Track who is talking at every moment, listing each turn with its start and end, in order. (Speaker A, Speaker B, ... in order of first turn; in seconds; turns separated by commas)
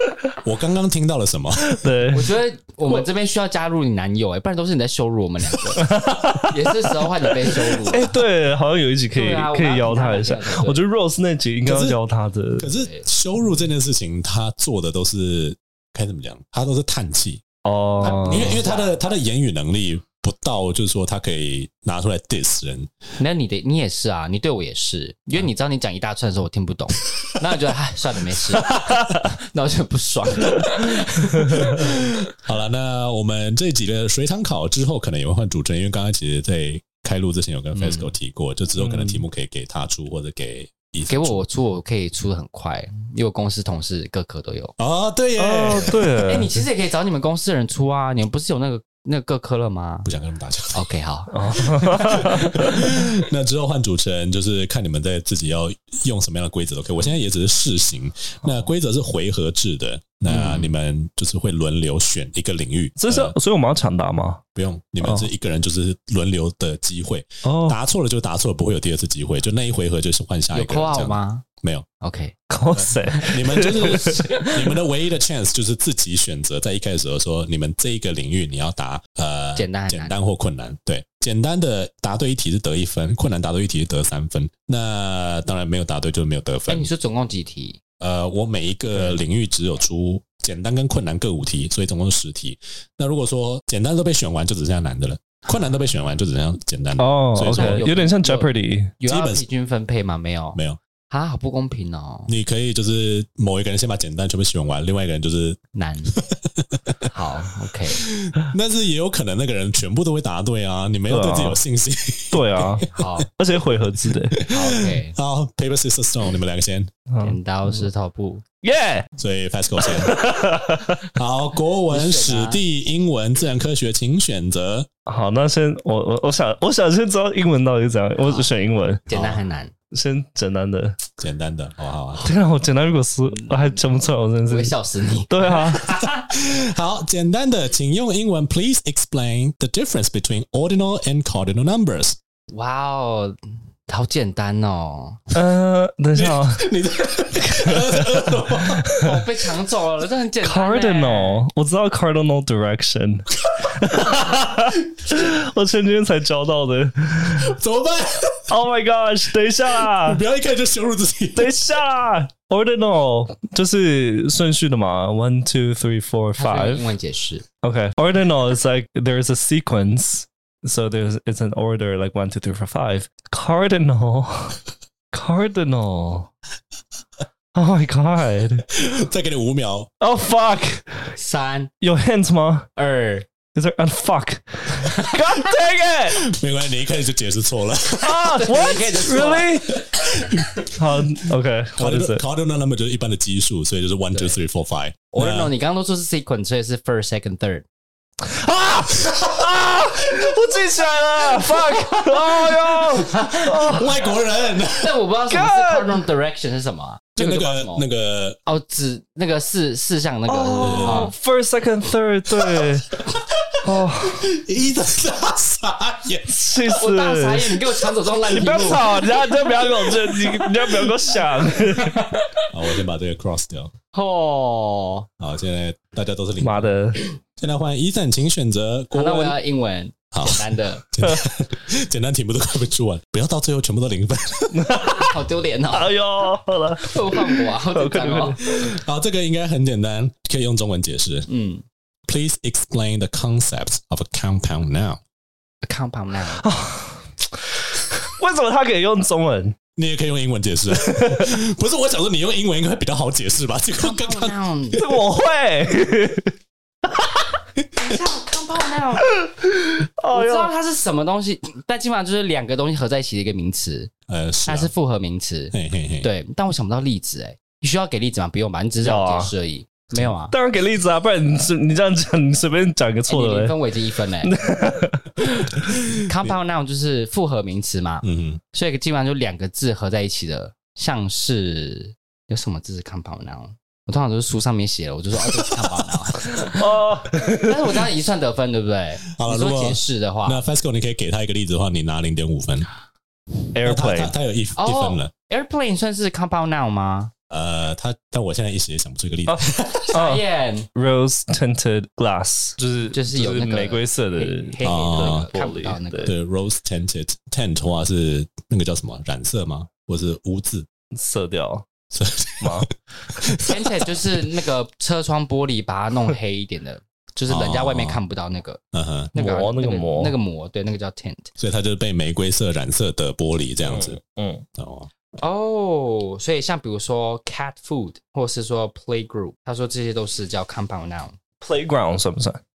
Speaker A: 0.4-1.9, Speaker B: 1.6-2.4, Speaker C: 2.1-8.2, Speaker B: 5.8-7.0, Speaker B: 7.8-12.7, Speaker C: 9.1-10.8, Speaker A: 11.6-12.0, Speaker A: 12.6-17.4, Speaker C: 12.6-13.1, Speaker B: 17.6-18.6, Speaker C: 18.0-19.0, Speaker A: 18.1-22.9, Speaker C: 23.2-32.0, Speaker B: 31.4-31.7, Speaker A: 31.8-41.4, Speaker C: 37.8-38.1, Speaker C: 41.1-44.7, Speaker A: 44.8-46.0, Speaker B: 45.4-46.6, Speaker C: 45.7-50.1, Speaker A: 50.0-50.8, Speaker C: 50.7-52.7, Speaker B: 51.3-52.8, Speaker A: 51.8-63.4, Speaker C: 60.3-60.7, Speaker B: 63.0-64.4, Speaker A: 64.5-71.8, Speaker B: 65.0-65.3, Speaker B: 67.4-67.8, Speaker C: 70.5-71.4, Speaker C: 72.0-72.4, Speaker B: 72.5-74.3, Speaker A: 72.7-86.9, Speaker C: 73.1-74.6, Speaker C: 79.5-80.1, Speaker C: 86.7-87.8, Speaker A: 88.0-97.9, Speaker C: 88.9-89.2, Speaker B: 97.0-98.9, Speaker C: 97.5-100.6, Speaker A: 99.0-99.4, Speaker C: 101.1-102.3, Speaker A: 102.3-105.6, Speaker C: 105.7-106.2, Speaker A: 106.2-107.1, Speaker C: 107.1-108.1, Speaker A: 107.9-113.1, Speaker B: 111.1-111.6, Speaker B: 112.3-114.4, Speaker C: 112.9-113.3, Speaker A: 114.3-116.9, Speaker C: 114.5-115.1, Speaker B: 117.1-117.9, Speaker C: 117.2-118.4, Speaker B: 118.6-119.1, Speaker A: 119.2-120.2, Speaker B: 120.0-121.0, Speaker A: 121.1-124.9, Speaker C: 121.9-122.6, Speaker B: 125.0-129.0, Speaker C: 128.2-128.5, Speaker C: 129.1-129.7, Speaker A: 129.1-129.4, Speaker B: 129.9-131.0, Speaker A: 131.2-132.2, Speaker B: 132.2-134.7, Speaker C: 133.3-133.8, Speaker C: 134.4-136.3, Speaker B: 135.3-135.9, Speaker A: 136.3-142.2, Speaker C: 142.5-143.4, Speaker C: 143.9-145.2, Speaker B: 145.3-146.7, Speaker A: 146.1-148.9, Speaker B: 147.4-149.1, Speaker C: 148.9-151.4, Speaker B: 150.4-157.5, Speaker A: 157.3-158.5, Speaker B: 158.5-160.2, Speaker A: 159.8-161.5, Speaker B: 161.3-166.9, Speaker C: 166.4-167.4, Speaker B: 167.6-174.6, Speaker B: 175.1-176.3, Speaker B: 177.5-178.7, Speaker A: 178.7-179.9, Speaker B: 180.0-181.1, Speaker C: 181.2-181.7, Speaker B: 181.8-182.7, Speaker C: 182.8-183.3, Speaker B: 183.5-186.3, Speaker C: 184.8-185.3, Speaker A: 186.1-188.4, Speaker B: 188.0-189.8, Speaker C: 188.2-190.3, Speaker A: 190.2-190.6, Speaker B: 190.7-192.2, Speaker A: 191.8-195.5, Speaker C: 195.1-197.6, Speaker B: 198.2-203.9, Speaker A: 202.9-205.0, Speaker C: 203.1-203.4, Speaker C: 204.7-207.8, Speaker B: 205.3-206.0, Speaker A: 207.2-208.4, Speaker C: 208.4-211.1, Speaker B: 210.3-213.0, Speaker A: 210.6-211.1, Speaker A: 212.4-212.7, Speaker B: 213.6-214.3, Speaker A: 213.7-216.4, Speaker B: 216.3-217.5, Speaker C: 216.7-219.1, Speaker B: 218.2-222.1, Speaker C: 221.7-222.5, Speaker A: 222.5-223.7, Speaker C: 223.9-225.1, Speaker A: 225.2-229.4, Speaker B: 226.4-227.1, Speaker C: 228.9-230.8, Speaker A: 230.1-234.8, Speaker B: 234.5-235.2, Speaker C: 234.9-236.0, Speaker B: 235.7-238.7, Speaker C: 236.8-238.4, Speaker A: 238.4-241.3, Speaker C: 241.3-241.6, Speaker A: 242.1-245.0, Speaker C: 245.6-246.4, Speaker B: 246.3-249.6, Speaker A: 249.8-254.3, Speaker B: 250.7-251.3, Speaker C: 253.8-254.8, Speaker B: 254.7-256.3, Speaker B: 256.9-257.2, Speaker C: 257.7-259.1, Speaker B: 259.0-260.5, Speaker C: 260.1-263.9, Speaker A: 264.1-264.7, Speaker C: 264.4-270.3, Speaker A: 265.5-266.1, Speaker B: 268.8-269.3, Speaker B: 270.3-273.6, Speaker C: 273.1-274.3, Speaker B: 274.2-275.7, Speaker C: 276.0-290.4, Speaker A: 278.0-278.4, Speaker A: 285.3-285.6, Speaker B: 286.3-287.8, Speaker A: 289.1-292.7, Speaker B: 293.5-294.1, Speaker A: 293.6-295.1, Speaker C: 294.6-297.1, Speaker A: 297.3-299.9, Speaker B: 299.3-306.1, Speaker C: 299.9-300.7, Speaker C: 302.9-306.1, Speaker A: 304.6-305.3, Speaker A: 306.0-310.7, Speaker B: 310.9-311.7, Speaker A: 311.9-314.3, Speaker B: 312.4-312.7, Speaker C: 313.4-318.6, Speaker A: 317.3-318.0, Speaker A: 318.7-319.1, Speaker C: 319.1-321.3, Speaker B: 319.1-320.1, Speaker A: 321.4-324.0, Speaker B: 323.6-324.4, Speaker A: 324.6-324.9, Speaker C: 325.2-331.1, Speaker B: 331.4-332.4